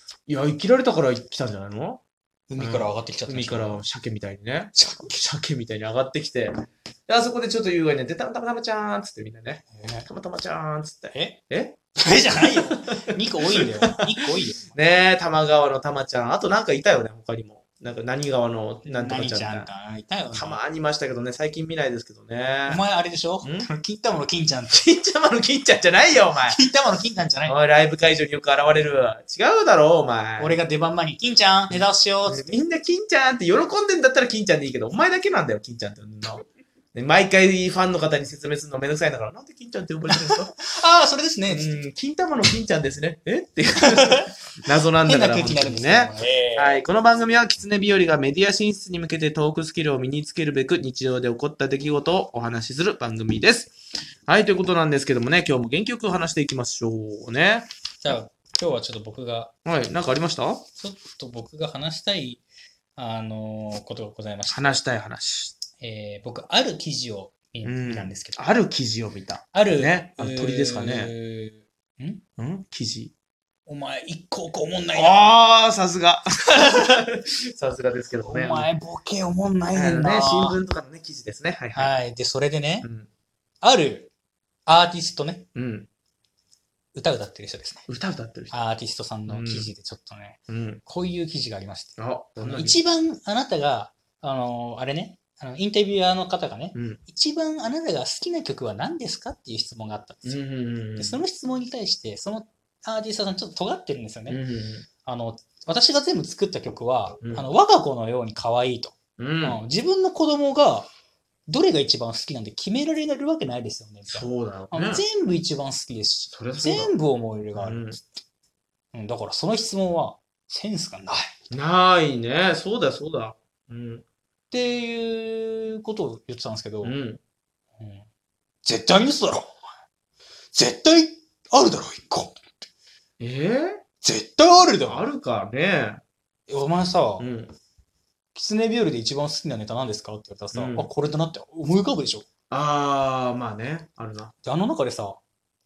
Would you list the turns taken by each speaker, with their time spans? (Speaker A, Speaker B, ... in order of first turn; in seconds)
Speaker A: 0.3-2.0, 2.6-6.5, 7.1-11.8, 12.3-13.0, 13.5-14.1, 14.7-19.7, 20.3-22.8, 23.4-23.7, 24.7-26.6, 27.4-30.6, 31.7-40.5, 41.5-53.7, 54.3-57.7, 59.6-60.6, 64.5-65.6, 67.6-71.1, 72.4-73.1, 74.9-78.7, 79.7-81.9, 82.8-83.1, 85.5-85.9, 87.9-88.5, 89.3-89.7, 90.5-90.8, 92.0-92.8, 96.7-97.0, 100.2-101.2, 104.3-104.8, 109.2-109.6, 114.1-115.0, 116.3-116.9, 117.5-118.0, 121.5-124.0, 126.8-127.2, 133.2-133.8, 134.8-136.0, 137.2-137.5, 140.5-140.9, 142.5-144.3
Speaker B: 2.5-3.8, 4.7-5.3, 9.7-10.1, 11.1-11.4, 12.0-14.7, 18.8-20.6, 22.7-24.8, 26.5-27.5, 30.4-32.6, 40.1-41.8, 43.8-44.3, 45.0-46.8, 58.0-59.5, 60.8-62.4, 63.0-64.8, 65.8-68.4, 69.5-72.2, 73.7-75.3, 76.5-77.0, 78.2-80.6, 81.7-82.9, 83.6-84.1, 84.7-85.5, 86.9-87.8, 88.5-100.4, 101.0-104.4, 105.0-110.9, 111.5-118.1, 118.9-121.3, 124.5-127.0, 127.8-128.0, 128.6-129.6, 130.5-132.5, 134.0-135.0, 136.5-137.2, 138.3-142.2, 144.4-145.2